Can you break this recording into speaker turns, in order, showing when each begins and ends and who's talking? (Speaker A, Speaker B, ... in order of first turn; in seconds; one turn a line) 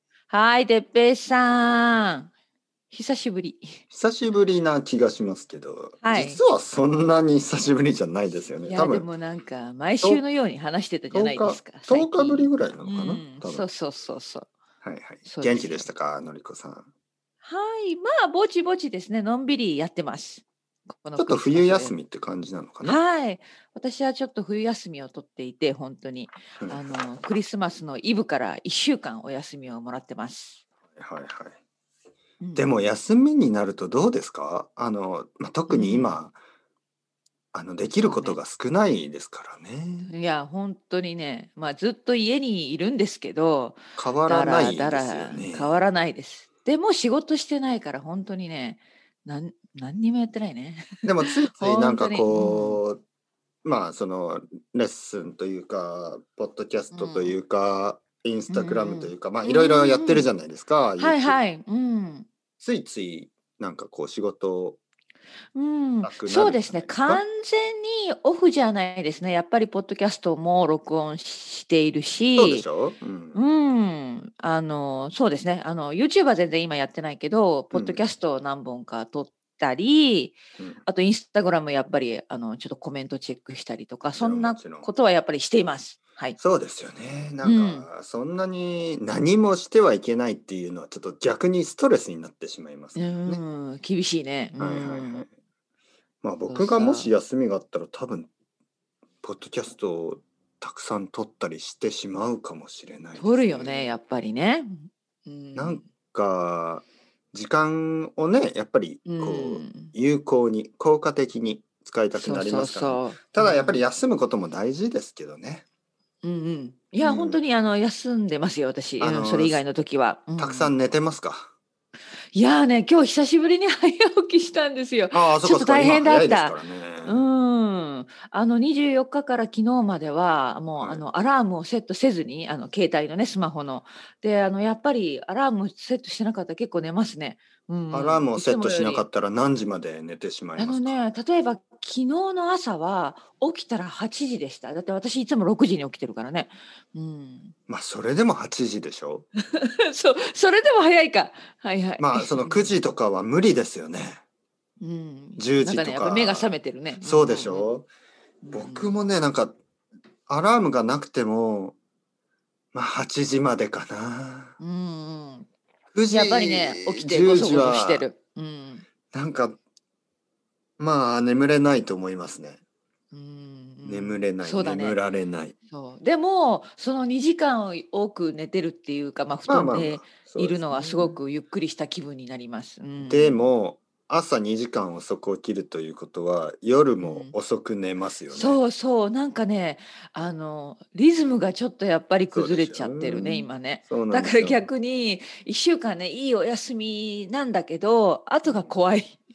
Speaker A: 0.3-2.3
Speaker A: 2.9-3.8
Speaker B: 3.9-9.1
Speaker A: 6.0-6.4
Speaker A: 8.7-14.5
Speaker B: 11.1-13.7
Speaker B: 14.8-16.9
Speaker A: 15.2-15.9
Speaker A: 17.4-21.9
Speaker B: 21.1-23.0
Speaker A: 22.8-30.6
Speaker B: 30.9-31.6
Speaker A: 32.4-32.7
Speaker B: 32.5-36.4
Speaker A: 35.7-36.2
Speaker B: 37.5-40.1
Speaker A: 38.0-38.4
Speaker A: 40.1-52.8
Speaker B: 44.0-45.7
Speaker B: 51.0-53.0
Speaker B: 53.6-61.4
Speaker A: 56.9-57.4
Speaker A: 58.5-60.3
Speaker A: 61.0-62.3
Speaker B: 62.6-64.8
Speaker A: 65.5-72.6
Speaker B: 66.0-67.2
Speaker B: 72.3-73.4
Speaker A: 73.3-86.4
Speaker B: 77.7-78.0
Speaker B: 84.2-84.9
Speaker B: 86.4-93.4
Speaker A: 87.4-87.8
Speaker A: 93.0-95.2
Speaker B: 94.6-95.3
Speaker B: 96.2-98.3
Speaker A: 96.5-97.1
Speaker B: 99.2-104.0
Speaker A: 103.2-105.8
Speaker B: 105.5-115.6
Speaker A: 109.0-109.9
Speaker A: 112.1-113.9
Speaker A: 116.2-120.7
Speaker B: 117.0-117.4
Speaker B: 119.0-119.6
Speaker B: 120.4-121.5
Speaker A: 122.3-139.0
Speaker B: 125.1-127.3
Speaker B: 130.8-131.0
Speaker B: 137.9-141.0
Speaker A: 140.6-147.5
Speaker B: 147.7-149.3
Speaker A: 149.4-152.8
Speaker B: 152.0-154.2
Speaker A: 154.8-157.7
Speaker B: 155.4-157.9
Speaker A: 158.4-158.9
Speaker B: 158.5-159.6
Speaker B: 160.3-161.8
Speaker B: 162.7-164.5
Speaker A: 164.6-165.5
Speaker B: 165.9-168.1
Speaker A: 166.1-168.8
Speaker B: 169.1-169.6
Speaker B: 170.8-172.6
Speaker A: 173.1-175.0
Speaker B: 173.8-175.5
Speaker A: 175.7-183.4
Speaker B: 179.5-181.2
Speaker B: 183.0-188.6
Speaker A: 187.0-187.3
Speaker A: 188.3-199.2
Speaker B: 192.3-194.7